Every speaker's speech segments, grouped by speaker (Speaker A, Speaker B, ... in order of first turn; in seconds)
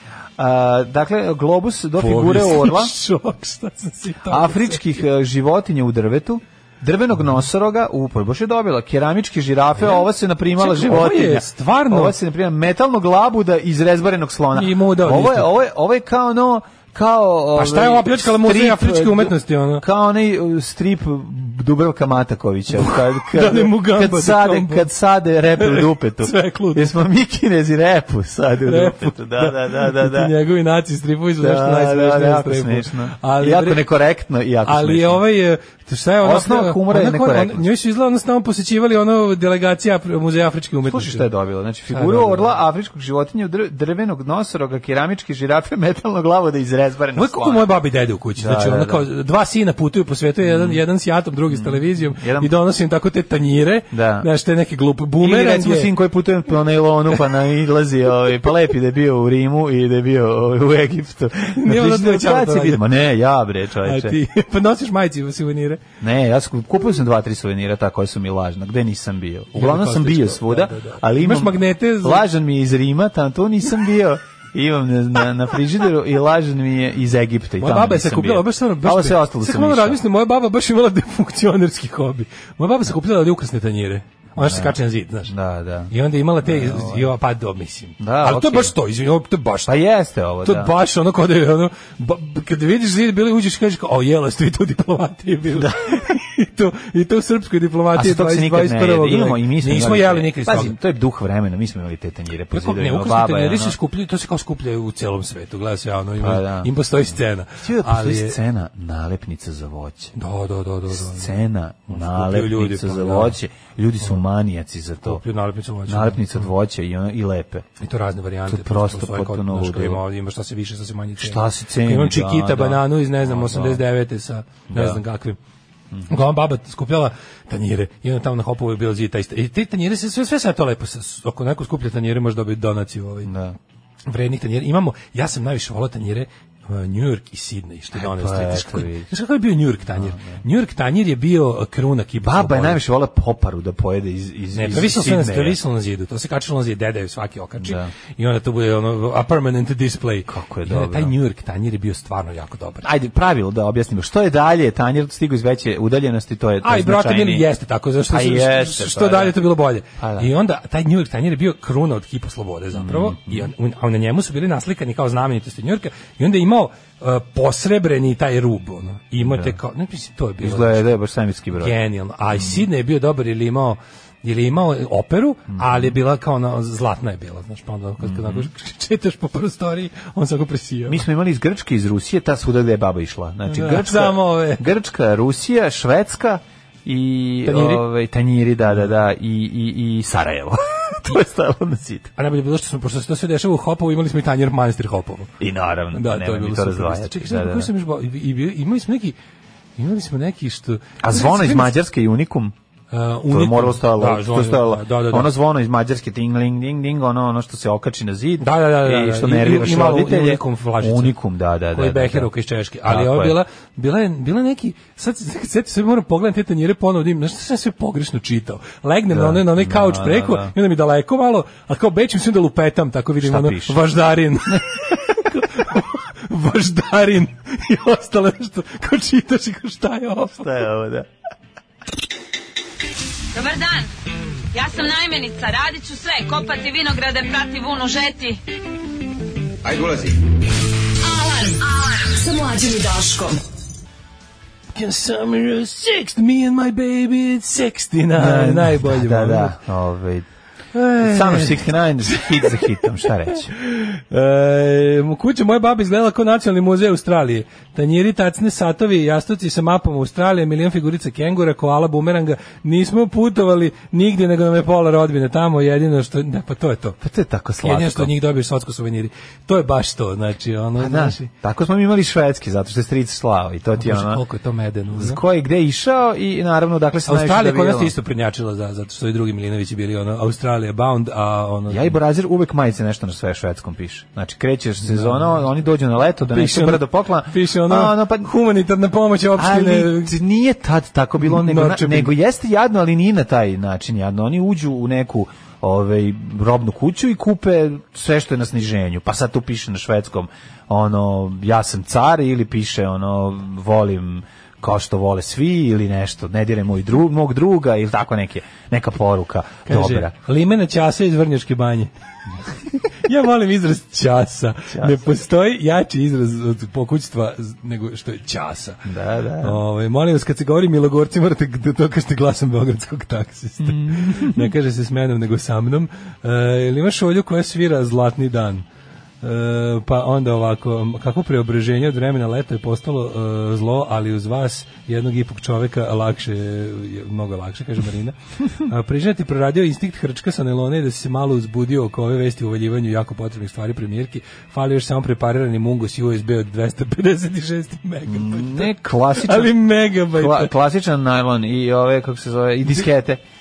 Speaker A: 0.4-2.9, 4.3-30.3, 31.4-35.2, 36.2-37.7, 40.9-47.7, 48.4-49.0, 50.4-50.8, 51.5-52.5, 53.9-54.3, 55.2-64.2, 66.0-80.0, 84.4-85.9, 86.4-87.1, 88.0-88.8, 89.7-90.7, 95.5-96.0, 98.0-103.8, 106.2-106.7, 107.6-110.1, 110.9-115.2, 115.9-117.7, 118.5-120.0, 121.2-123.8, 124.7-125.0, 133.2-133.6, 137.9-139.1, 139.9-140.4, 142.2-145.6, 147.6-147.9, 150.3-151.1, 152.8-157.5, 158.1-159.4, 160.0-160.3, 162.7-163.5, 169.2-169.6, 170.4-171.8, 172.3-172.6, 175.5-176.0, 178.0-178.5, 180.9-192.1, 195.4-197.7, 201.0-202.5, 203.3-212.3, 212.8-213.4, 219.1-220.5, 223.2-223.8, 230.4-231.1, 248.1-250.3, 251.0-253.5, 267.0-268.1, 270.8-274.2, 274.9-277.9, 281.7-288.3, 289.4-310.1, 314.7-315.0, 318.9-319.6, 323.6-324.5, 348.1-353.2
Speaker B: 2.0-5.0, 9.8-12.1, 14.5-15.5, 17.6-19.8, 22.8-24.9, 25.6-26.9, 28.6-33.8, 34.7-41.3, 41.9-42.5, 47.2-55.9, 61.6-62.8, 63.8-65.8, 69.5-72.2, 77.6-85.3, 85.9-89.7, 90.4-100.8, 102.5-108.4, 110.2-111.4, 111.9-113.4, 115.0-116.5, 117.8-125.4, 126.1-133.3, 134.1-142.8, 144.5-152.9, 156.6-170.9, 171.6-181.0, 183.5-184.7, 187.4-187.8, 192.2-195.3, 195.9-199.2, 199.8-201.8, 202.9-205.3, 208.4-211.2, 211.7-230.5, 244.7-249.6, 250.7-252.6, 253.6-267.0, 267.6-271.3, 273.8-275.2, 277.1-282.0, 284.8-285.4, 286.3-290.2, 291.2-292.1, 309.7-311.9, 313.0-318.8, 319.4-328.6, 329.2-350.5
Speaker C: 233.3-233.9, 234.5-238.4
Speaker D: 241.0-243.4